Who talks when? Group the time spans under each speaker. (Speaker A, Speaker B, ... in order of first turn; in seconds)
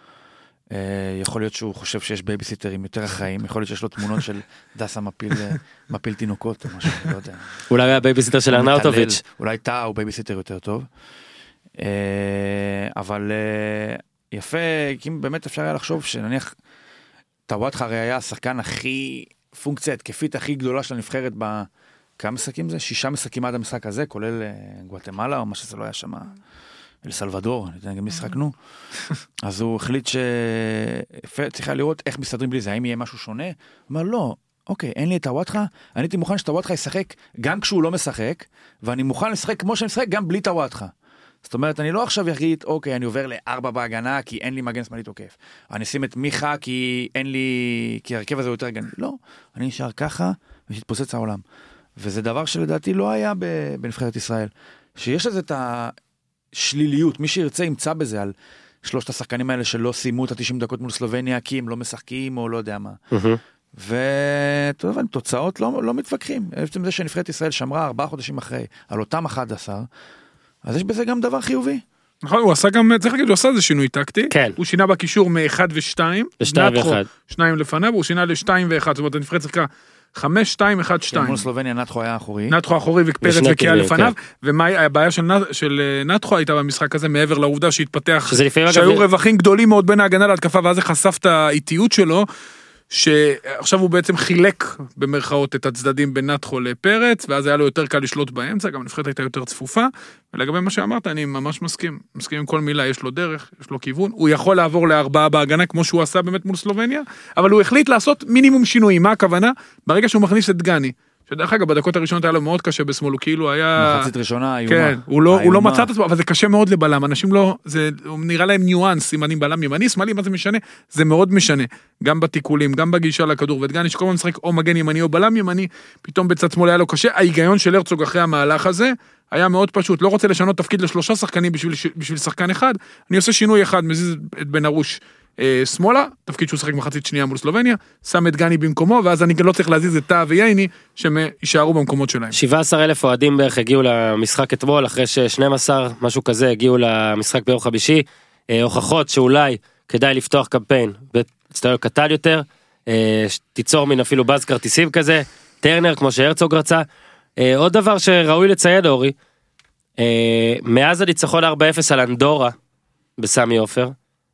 Speaker A: 0.7-7.6, 8.5-10.9, 11.8-16.6, 17.5-26.4, 27.0-28.6, 29.4-40.9, 41.4-51.4, 52.0-56.0, 56.5-63.0, 63.8-69.9, 70.7-71.8, 81.1-82.6, 113.8-115.9
Speaker B: 7.7-9.2, 63.1-63.4, 74.3-74.6, 76.4-77.1, 83.2-84.1, 88.3-89.0, 142.3-156.8, 157.4-159.2, 160.0-162.6, 163.2-163.9
Speaker C: 72.2-81.5, 82.5-92.3, 92.9-114.1, 114.7-142.3